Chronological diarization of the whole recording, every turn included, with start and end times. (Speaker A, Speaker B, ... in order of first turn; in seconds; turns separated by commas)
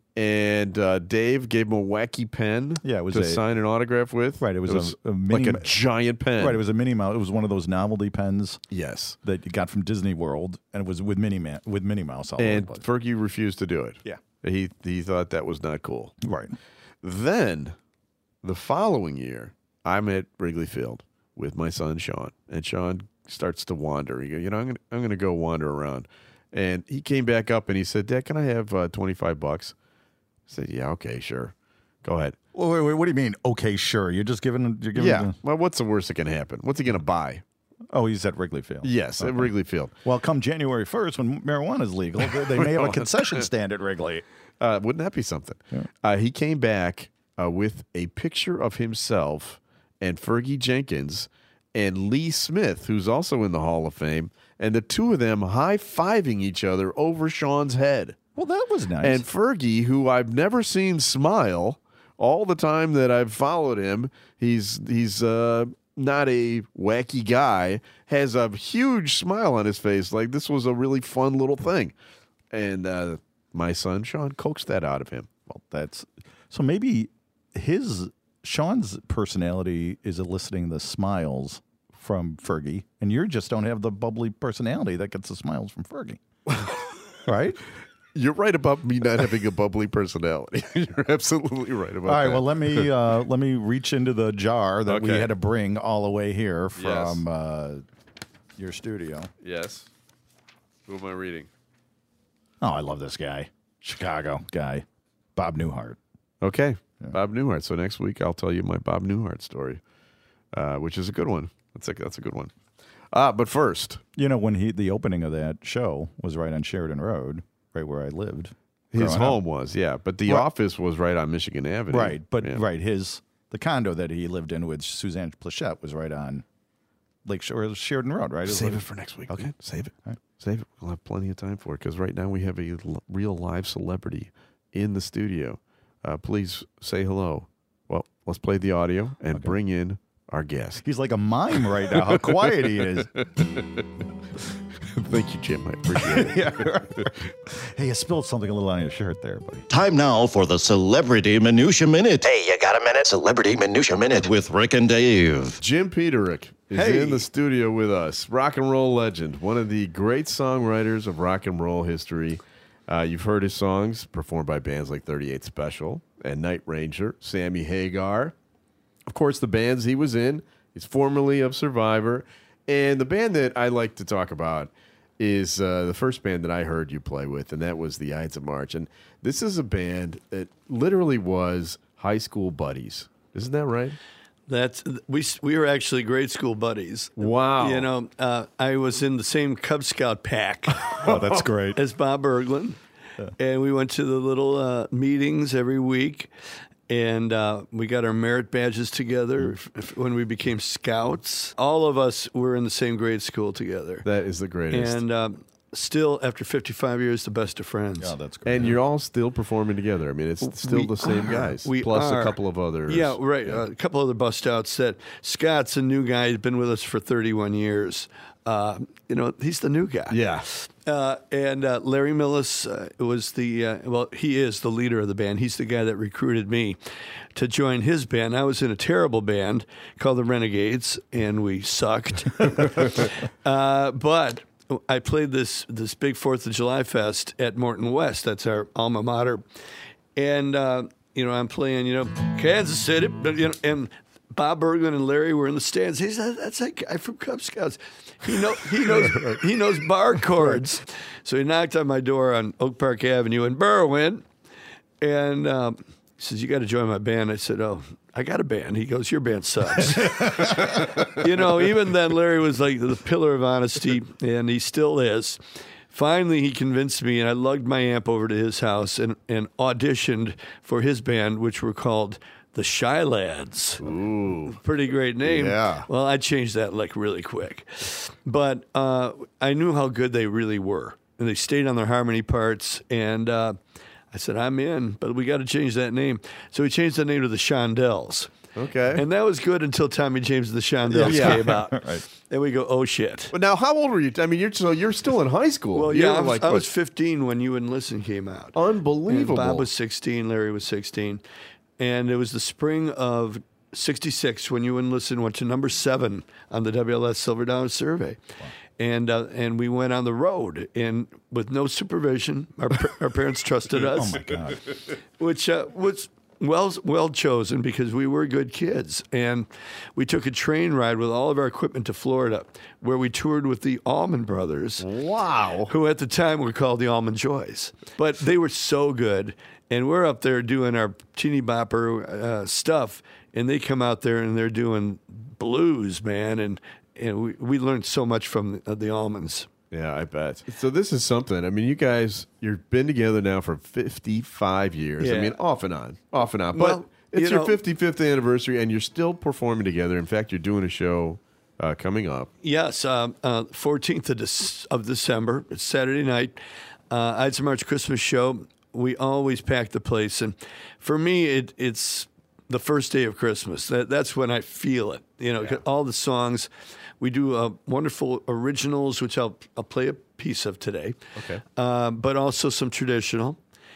Speaker A: 0.1-6.6, Speaker B: 2.8-3.4, Speaker B: 4.4-5.7, Speaker B: 6.4-8.6, Speaker A: 8.7-9.2, Speaker B: 9.2-12.8, Speaker A: 12.4-16.1, Speaker B: 16.2-16.5, Speaker A: 17.0-17.8, Speaker A: 18.4-29.7, Speaker A: 30.5-32.4, Speaker B: 32.5-35.3, Speaker A: 34.9-37.4, Speaker B: 37.9-44.2, Speaker A: 38.8-39.9, Speaker A: 42.5-43.4, Speaker A: 44.6-58.2, Speaker B: 58.3-59.2, Speaker A: 59.0-71.9, Speaker A: 72.5-75.3, Speaker B: 75.5-86.2, Speaker A: 86.5-86.8, Speaker B: 87.2-87.6, Speaker A: 88.1-92.9, Speaker B: 92.0-97.8, Speaker A: 94.9-95.3, Speaker A: 96.8-97.2, Speaker B: 98.5-99.3, Speaker A: 99.4-99.9, Speaker A: 100.9-101.5, Speaker B: 102.6-104.8, Speaker B: 105.3-106.0, Speaker A: 106.4-109.8, Speaker A: 110.5-112.5, Speaker A: 113.1-114.0, Speaker B: 114.2-119.4, Speaker A: 118.9-122.6, Speaker B: 121.9-126.4, Speaker B: 127.2-129.5, Speaker A: 128.4-140.8, Speaker B: 140.8-143.1, Speaker A: 141.9-143.8, Speaker A: 144.9-147.0, Speaker B: 146.0-149.7, Speaker C: 149.7-155.6, Speaker A: 155.6-168.3, Speaker D: 156.7-157.2, Speaker A: 169.1-184.0, Speaker D: 184.5-191.0, Speaker A: 187.2-187.9, Speaker B: 190.9-191.8, Speaker D: 191.7-192.8, Speaker D: 193.4-196.3, Speaker D: 196.9-204.1, Speaker A: 204.0-205.0, Speaker D: 204.7-208.1, Speaker B: 208.0-208.8, Speaker A: 208.4-213.6, Speaker D: 210.5-212.4, Speaker D: 212.9-226.8, Speaker A: 220.1-220.5, Speaker D: 227.3-239.4, Speaker D: 240.2-254.2, Speaker D: 255.0-265.4, Speaker D: 265.9-273.8, Speaker A: 273.8-274.6, Speaker D: 274.5-283.6, Speaker A: 275.2-275.9, Speaker D: 284.1-288.3, Speaker A: 288.5-289.0, Speaker D: 288.9-293.3, Speaker B: 290.9-292.0, Speaker A: 291.0-291.4, Speaker A: 293.3-296.7, Speaker D: 295.7-298.5, Speaker A: 298.5-299.7, Speaker D: 299.1-301.2, Speaker D: 301.8-308.2, Speaker D: 308.8-314.3, Speaker B: 313.8-314.6, Speaker D: 315.2-324.8, Speaker A: 324.8-325.7, Speaker D: 325.7-339.5, Speaker A: 339.7-352.3, Speaker D: 345.0-345.4, Speaker D: 346.5-347.6, Speaker D: 352.4-356.4, Speaker D: 356.9-366.5, Speaker D: 367.0-371.0, Speaker A: 371.1-371.4, Speaker D: 371.6-373.4